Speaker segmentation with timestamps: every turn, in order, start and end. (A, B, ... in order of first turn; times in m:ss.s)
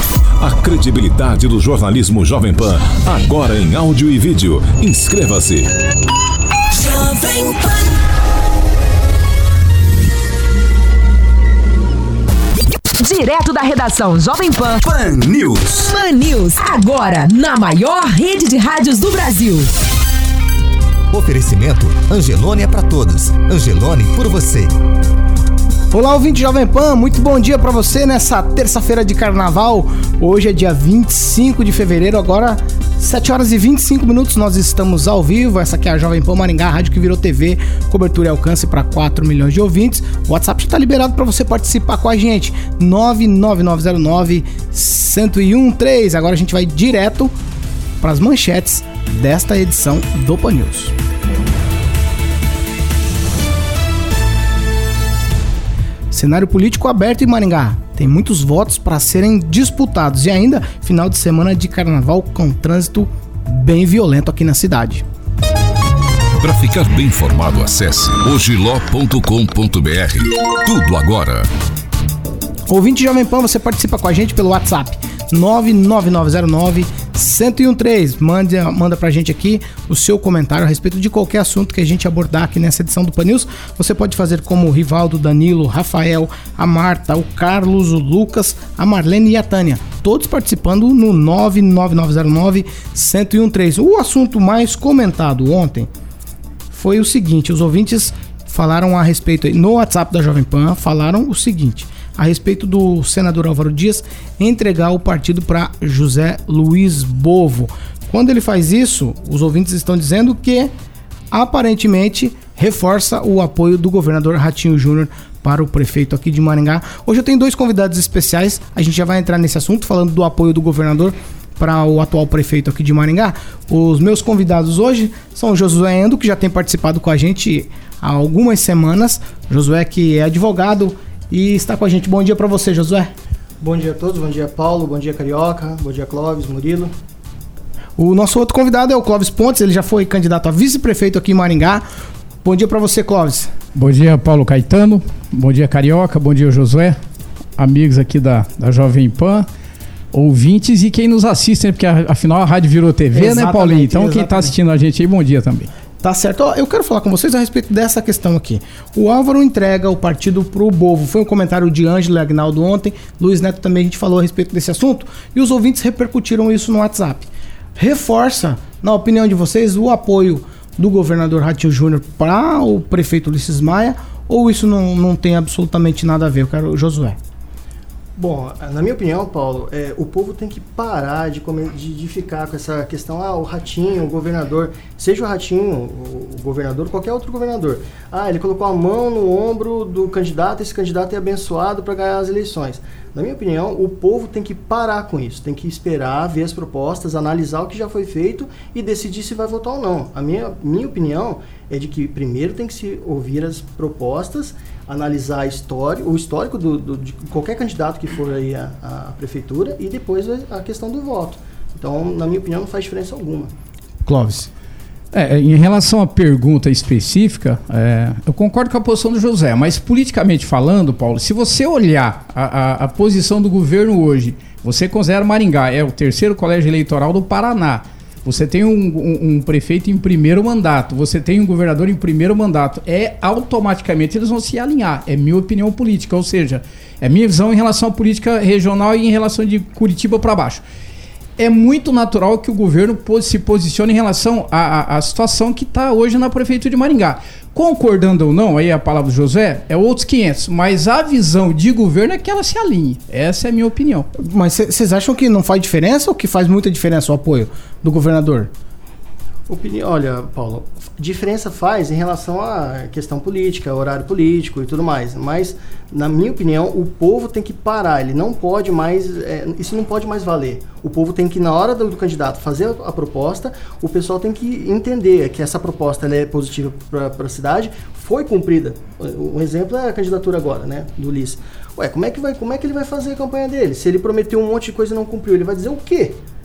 0:00.4-0:05.7 A
0:06.7-0:08.0 B
0:13.0-0:19.7 B
0:21.1-0:24.7 C
0:25.9-0:47.4 D
0:48.0-0:50.9 D
0:56.1-1:05.1 D
1:06.4-1:11.5 A
1:12.7-1:35.9 D
1:36.7-1:50.7 D
1:51.3-2:13.1 D
2:13.6-2:16.9 E
2:18.0-2:21.8 D
2:22.4-2:23.5 D
2:23.8-2:27.0 F
2:27.6-2:29.5 F
2:30.1-2:35.7 F
2:33.1-2:34.5 D
2:36.0-2:57.2 D
2:58.2-3:33.5 E
3:34.0-3:34.5 D
3:35.1-4:00.6 F
4:01.4-4:14.1 F
4:14.2-4:18.5 D
4:19.5-4:46.2 E